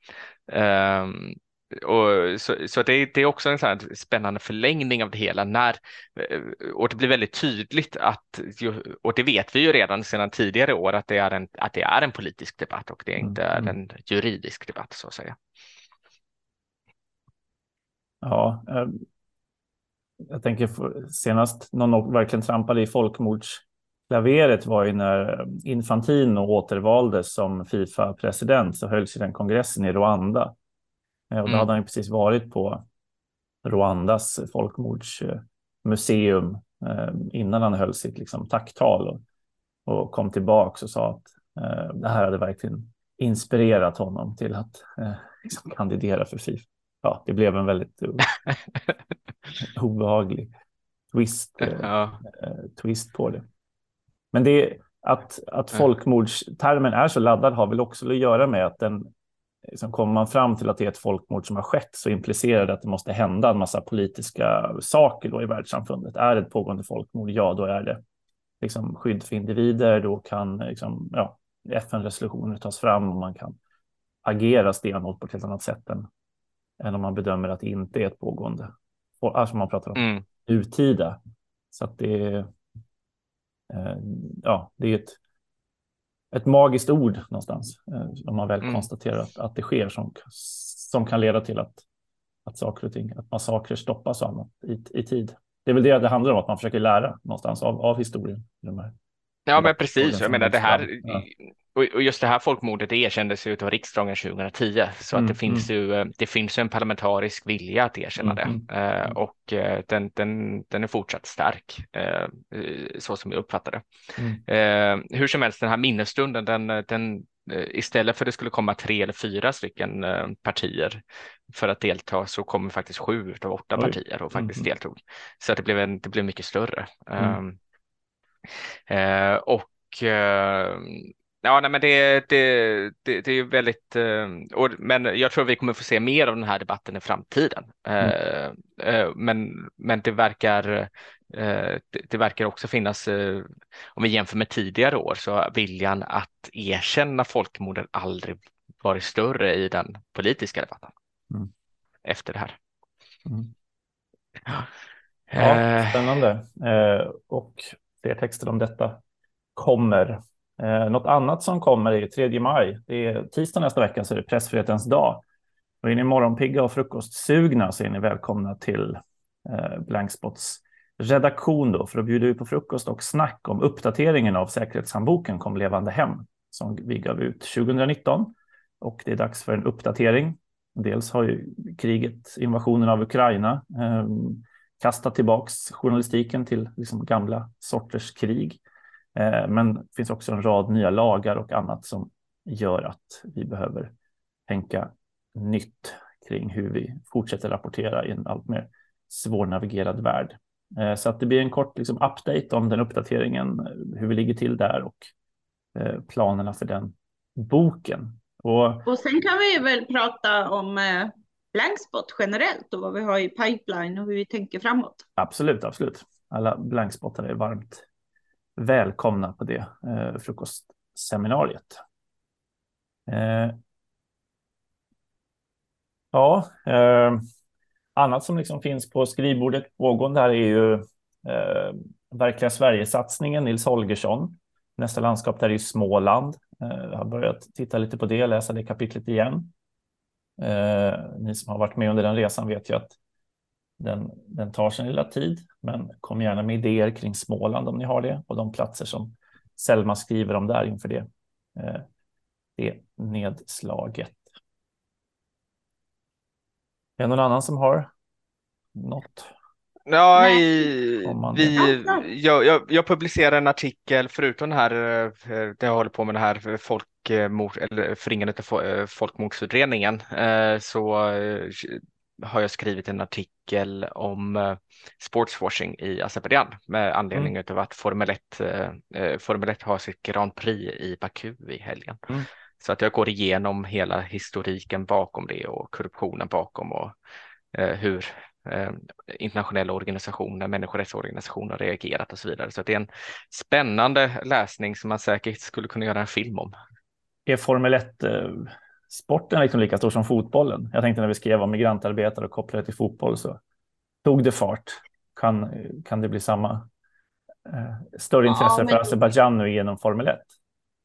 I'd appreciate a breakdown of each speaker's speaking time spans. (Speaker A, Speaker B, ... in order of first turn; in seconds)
Speaker A: 0.5-15.3, 51.6-52.2, 79.9-80.2, 99.5-113.8, 114.5-127.6, 128.9-150.9, 152.0-152.6, 155.3-156.1, 259.9-282.1, 282.6-286.9, 287.5-296.5
Speaker B: 13.2-13.8, 18.2-19.0, 20.3-30.5, 31.3-32.8, 33.6-39.2, 39.9-48.3, 49.6-50.5, 51.1-53.5, 54.3-59.1, 59.7-68.0, 68.6-73.6, 74.2-76.1, 76.8-81.2, 81.7-82.5, 83.7-85.2, 86.3-91.8, 92.5-98.9, 99.5-101.2, 105.1-105.7, 108.2-109.2, 114.2-114.4, 123.8-124.7, 153.2-153.5, 155.3-159.0, 159.6-165.2, 165.8-188.6, 189.1-193.9, 194.5-205.1, 205.7-208.9, 215.2-217.8, 218.6-221.8, 223.1-223.6, 226.1-227.2, 227.9-239.5, 240.4-242.9, 243.8-251.8, 252.6-254.2, 257.0-257.9, 258.7-259.3, 261.0-261.7, 297.3-303.4, 304.0-306.7, 307.4-310.3
Speaker C: 208.8-215.0, 260.1-260.7, 261.6-262.1, 308.3-308.9